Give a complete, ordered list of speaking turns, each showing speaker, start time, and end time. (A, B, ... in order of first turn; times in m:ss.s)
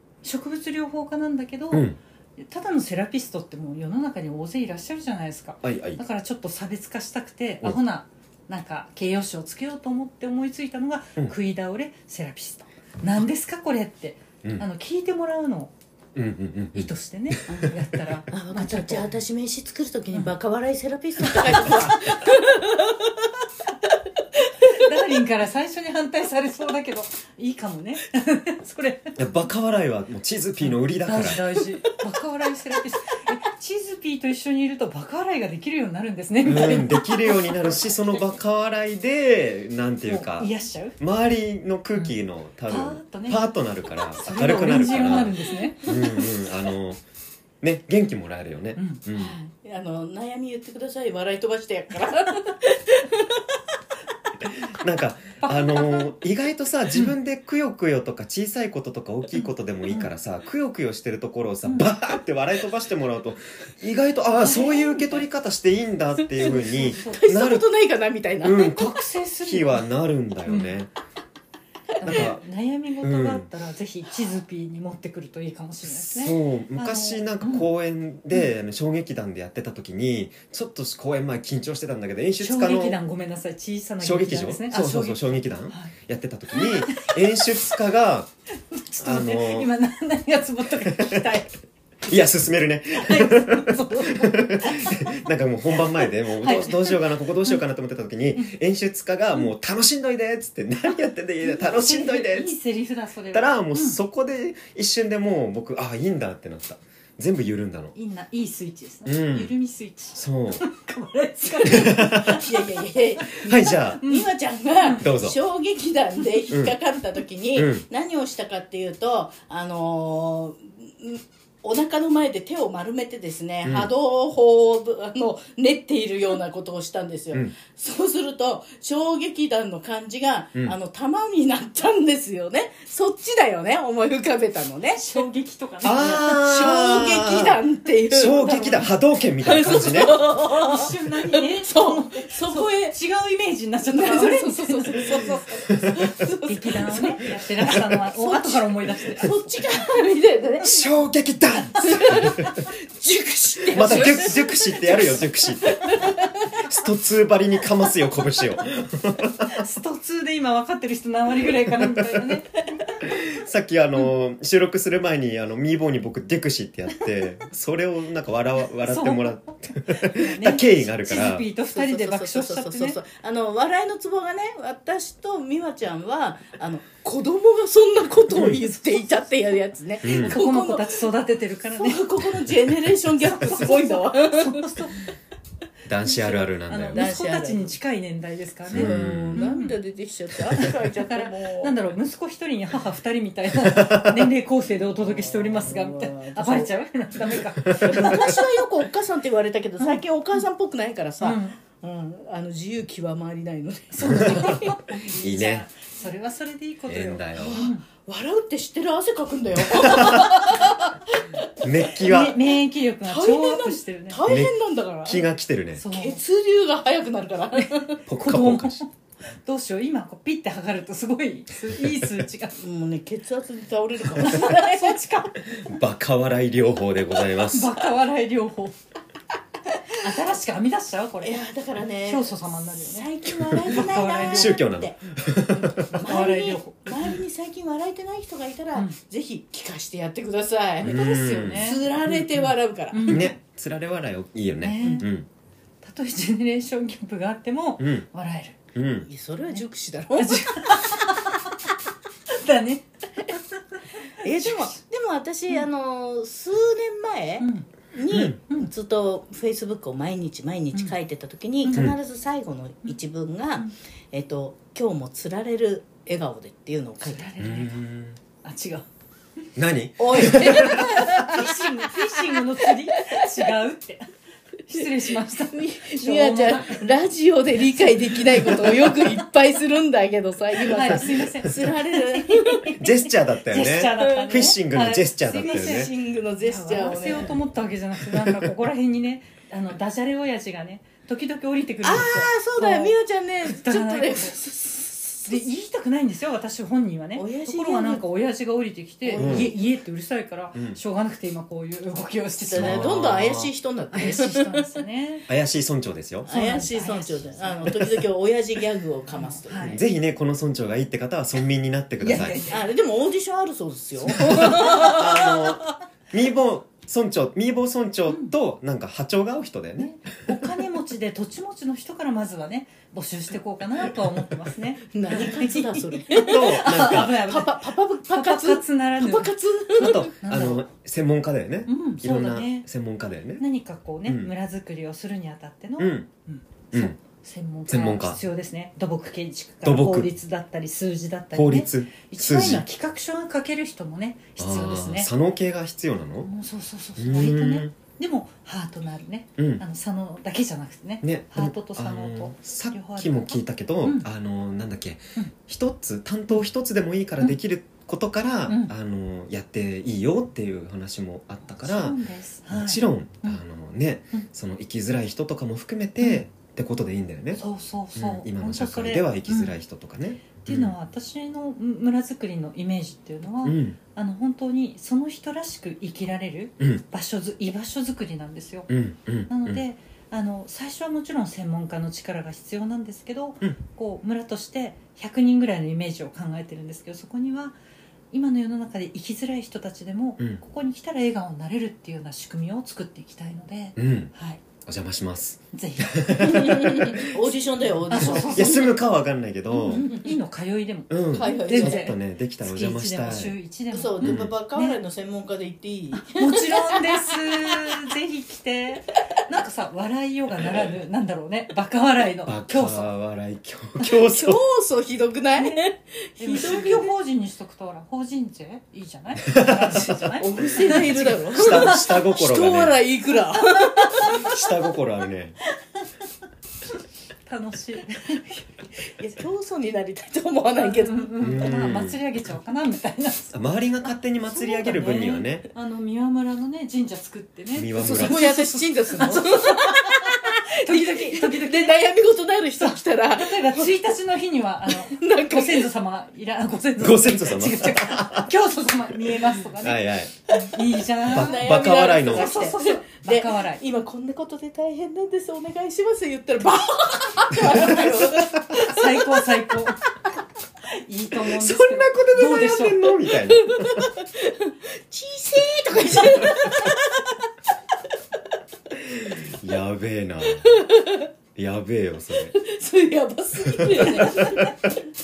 0:00.2-0:15.7 A
0:01.7-0:02.0 B
0:05.6-0:06.0 B
0:16.1-0:17.7 B
0:16.7-0:19.1 A
0:18.3-0:23.3 C
0:24.6-0:29.2 A
0:29.2-0:31.4 B
0:30.6-0:37.9 A
0:36.4-0:47.0 B
0:40.1-0:41.0 A
0:42.6-0:43.5 A
0:44.1-0:46.3 A
0:47.6-0:49.4 B
0:48.8-0:49.4 A
0:49.1-0:53.6 C
0:54.7-1:07.6 B
0:55.4-0:56.1 A
0:59.3-1:00.1 A
1:04.4-1:05.2 A
1:06.4-1:07.3 A
1:06.4-1:08.7 C
1:08.4-1:10.9 B
1:08.5-1:09.9 A
1:10.4-1:10.8 A
1:12.0-1:17.7 A
1:12.0-1:12.4 B
1:13.0-1:13.5 B
1:15.8-1:23.0 B
1:22.4-1:25.9 A
1:24.0-1:28.3 B
1:26.5-1:27.5 A
1:28.7-1:31.5 A
1:29.0-1:29.7 B
1:30.8-1:31.3 B
1:32.0-1:42.5 B
1:32.9-1:37.6 A
1:41.4-1:44.0 A
1:43.3-1:47.9 B
1:47.9-1:52.6 A
1:49.0-1:49.5 B
1:50.1-1:50.6 B
1:51.6-2:15.2 C
1:51.7-1:52.4 B
1:53.2-1:54.3 A
1:53.4-1:54.1 B
1:54.8-1:55.0 A
1:55.0-1:55.4 B
1:57.5-1:57.8 B
2:03.6-2:03.9 B
2:14.9-2:16.4 A
2:15.8-2:20.2 B
2:15.9-2:18.9 C
2:19.4-2:23.0 C
2:19.9-2:29.8 A
2:23.8-2:27.2 C
2:27.6-2:28.0 B
2:28.1-2:30.9 C
2:30.6-2:32.6 B
2:31.6-2:32.2 A
2:31.8-2:36.5 C
2:33.7-2:39.6 B
2:33.8-2:34.3 A
2:39.4-2:43.1 A
2:41.8-2:42.2 B
2:43.0-2:51.4 B
2:48.8-2:53.0 A
2:51.7-3:01.0 C
2:58.3-2:58.6 B
3:00.0-3:00.3 B
3:00.1-3:02.0 A
3:01.7-3:04.7 C
3:03.2-3:05.0 A
3:05.9-3:07.2 B
3:06.0-3:09.7 A
3:06.9-3:07.7 C
3:08.7-3:09.5 B
3:08.7-3:11.8 C
3:10.5-3:18.4 A
3:13.7-3:14.2 B
3:14.8-3:16.7 C
3:17.7-3:18.1 B
3:17.8-3:24.8 C
3:21.2-3:21.6 A
3:23.9-3:27.8 A
3:24.0-3:25.7 B
3:26.9-3:27.7 B
3:27.4-3:32.1 C
3:29.7-3:30.3 B
3:31.6-3:32.4 B
3:31.9-3:34.2 A
3:33.0-3:35.3 C
3:34.2-3:35.8 B
3:35.8-3:36.2 A
3:35.9-3:38.0 C
3:37.6-3:42.6 A
3:38.0-3:38.8 B
3:42.6-3:45.2 C
3:44.2-3:45.3 A
3:45.5-3:47.7 B
3:47.5-3:48.8 A
3:49.9-3:51.4 A
3:51.2-3:55.0 C
3:52.0-3:54.7 A
3:53.5-3:55.9 B
3:55.5-3:57.1 A
3:55.9-4:03.2 C
4:00.8-4:02.5 B
4:00.8-4:01.8 A
4:02.9-4:03.3 A
4:03.1-4:05.3 B
4:04.6-4:05.1 A
4:05.8-4:08.6 A
4:07.8-4:08.0 B
4:08.7-4:09.1 B
4:09.1-4:11.1 C
4:10.2-4:11.7 A
4:12.3-4:14.8 A
4:14.2-4:27.3 C
4:17.4-4:17.7 A
4:18.1-4:18.4 B
4:21.6-4:21.9 A
4:27.0-4:27.8 A
4:27.4-4:28.2 B
4:28.4-4:28.8 A
4:29.6-4:30.8 B
4:30.0-4:33.4 C
4:30.2-4:34.1 A
4:34.6-4:36.9 A
4:34.8-4:42.9 C
4:37.6-4:39.0 A
4:40.6-4:42.9 A
4:42.8-4:45.9 B
4:43.5-4:54.4 A
4:45.3-4:47.4 C
4:51.8-4:55.4 C
4:55.2-5:03.0 A
4:57.2-4:58.0 C
4:59.0-4:59.5 C
4:59.2-4:59.5 B
5:02.5-5:04.8 C
5:02.6-5:03.5 B
5:03.9-5:05.3 A
5:05.3-5:06.3 B
5:06.2-5:07.9 A
5:06.3-5:09.8 C
5:09.1-5:09.8 A
5:09.6-5:12.4 B
5:12.0-5:12.6 A
5:12.1-5:15.6 C
5:14.0-5:19.9 B
5:14.1-5:14.9 A
5:18.1-5:18.3 A
5:19.8-5:30.6 A
5:24.9-5:30.1 C
5:26.1-5:27.2 B
5:29.8-5:33.4 B
5:31.6-5:32.7 A
5:33.4-5:45.1 A
5:34.0-5:34.3 B
5:35.8-5:36.1 B
5:36.7-5:37.0 B
5:37.7-5:38.2 B
5:39.6-5:40.1 B
5:41.3-5:42.6 B
5:44.4-5:46.3 B
5:46.2-5:54.1 A
5:47.0-5:47.7 B
5:49.4-5:49.6 B
5:51.0-6:07.4 B
5:58.5-5:58.7 A
6:01.6-6:03.4 A
6:06.0-6:06.2 A
6:07.3-6:09.5 A
6:08.0-6:10.7 B
6:10.4-6:18.7 A
6:13.4-6:13.8 B
6:18.7-6:19.6 B
6:19.3-6:27.6 A
6:28.1-6:34.4 A
6:33.8-6:34.1 B
6:34.6-6:37.1 B
6:35.5-6:36.8 A
6:36.1-6:38.8 C
6:37.9-6:38.7 A
6:37.9-6:39.9 B
6:39.5-6:44.8 A
6:39.7-6:40.1 C
6:40.9-6:43.3 B
6:41.1-6:41.8 C
6:43.7-6:47.7 C
6:44.0-6:44.3 B
6:45.9-6:52.9 A
6:52.3-6:54.4 B
6:54.0-6:56.9 C
6:55.4-6:55.7 A
6:56.2-7:01.8 A
6:59.3-7:00.0 B
7:00.2-7:04.2 C
7:00.6-7:02.8 B
7:03.3-7:04.4 A
7:04.0-7:05.4 B
7:07.2-7:08.4 A
7:08.9-7:11.1 C
7:10.6-7:13.3 A
7:11.2-7:12.0 B
7:13.3-7:15.4 B
7:14.3-7:21.8 A
7:17.6-7:18.2 B
7:17.8-7:23.7 C
7:22.6-7:33.6 A
7:24.7-7:25.7 C
7:26.8-7:28.3 B
7:29.5-7:30.1 B
7:31.0-7:32.5 B
7:31.0-7:39.3 C
7:38.2-7:39.9 A
7:40.8-7:42.9 A
7:41.2-7:43.9 B
7:43.3-7:47.2 C
7:48.8-7:50.6 B
7:50.3-7:51.1 C
7:51.3-7:52.3 B
7:52.3-7:54.5 C
7:53.6-7:54.5 B
7:54.0-7:54.7 A